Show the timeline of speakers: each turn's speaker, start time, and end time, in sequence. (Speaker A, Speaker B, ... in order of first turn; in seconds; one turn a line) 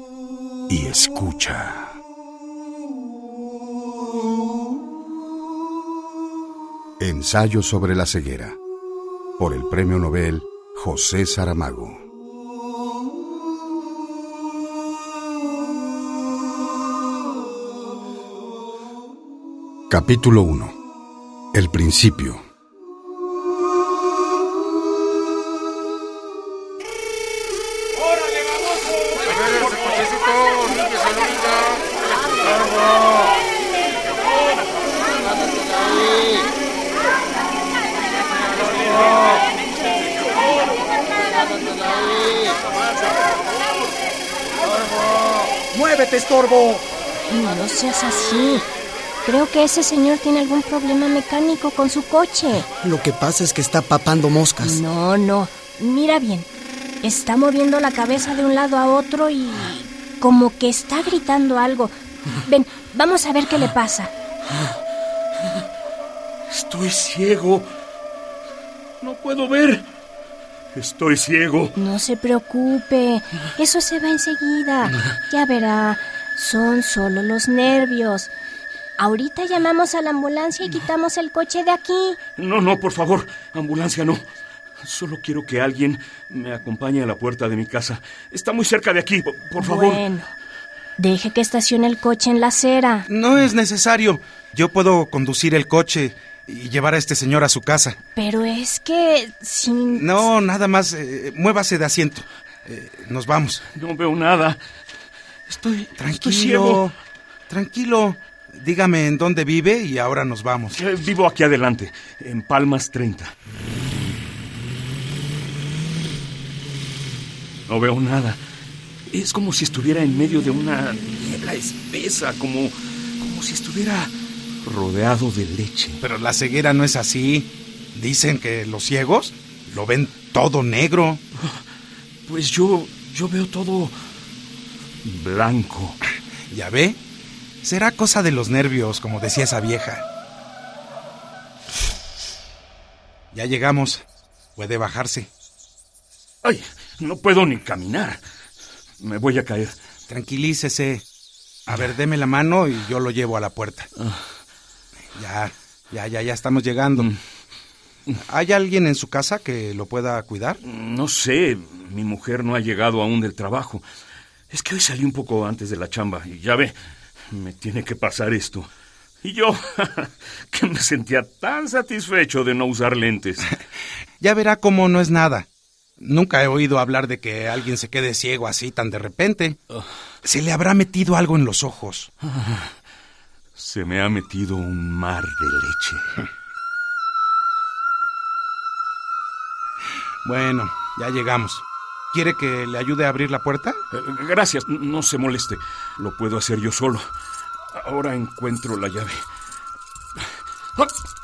Speaker A: 0.7-2.0
Speaker A: 7.0-8.6
Speaker A: 9.4-12.0
Speaker A: 19.9-20.8
Speaker A: 21.5-22.4
Speaker B: 45.7-46.8
Speaker C: 47.3-48.6
Speaker C: 49.2-52.7
Speaker B: 52.9-54.7
Speaker C: 54.6-56.5
Speaker C: 57.0-64.1
Speaker D: 66.5-67.7
Speaker D: 69.0-69.8
Speaker D: 70.7-71.7
Speaker C: 71.8-78.3
Speaker C: 79.0-82.2
Speaker D: 82.3-84.2
Speaker D: 84.8-90.0
Speaker C: 89.6-90.3
Speaker C: 91.0-93.0
Speaker E: 93.1-98.0
Speaker C: 98.2-100.2
Speaker E: 100.0-103.6
Speaker D: 103.7-104.6
Speaker D: 105.5-106.8
Speaker E: 106.0-106.9
Speaker E: 107.5-110.8
Speaker D: 110.7-113.3
Speaker D: 117.7-118.4
Speaker D: 119.1-126.0
Speaker E: 126.0-131.2
Speaker D: 132.3-133.9
Speaker D: 135.0-136.0
Speaker E: 136.5-137.0
Speaker E: 137.6-140.1
Speaker E: 143.3-144.0
Speaker E: 144.6-145.3
Speaker D: 146.4-148.2
Speaker D: 149.0-149.7
Speaker E: 150.1-151.0
Speaker E: 151.7-153.9
Speaker E: 155.2-157.2
Speaker E: 158.2-160.6
Speaker D: 160.6-163.8
Speaker D: 164.5-166.7
Speaker D: 167.3-168.7
Speaker D: 169.2-173.5
Speaker E: 174.2-175.5
Speaker E: 176.0-179.6
Speaker E: 180.2-182.1
Speaker D: 182.2-182.7
Speaker D: 183.6-186.1
Speaker E: 190.2-193.8
Speaker D: 193.9-197.0
Speaker D: 197.7-199.2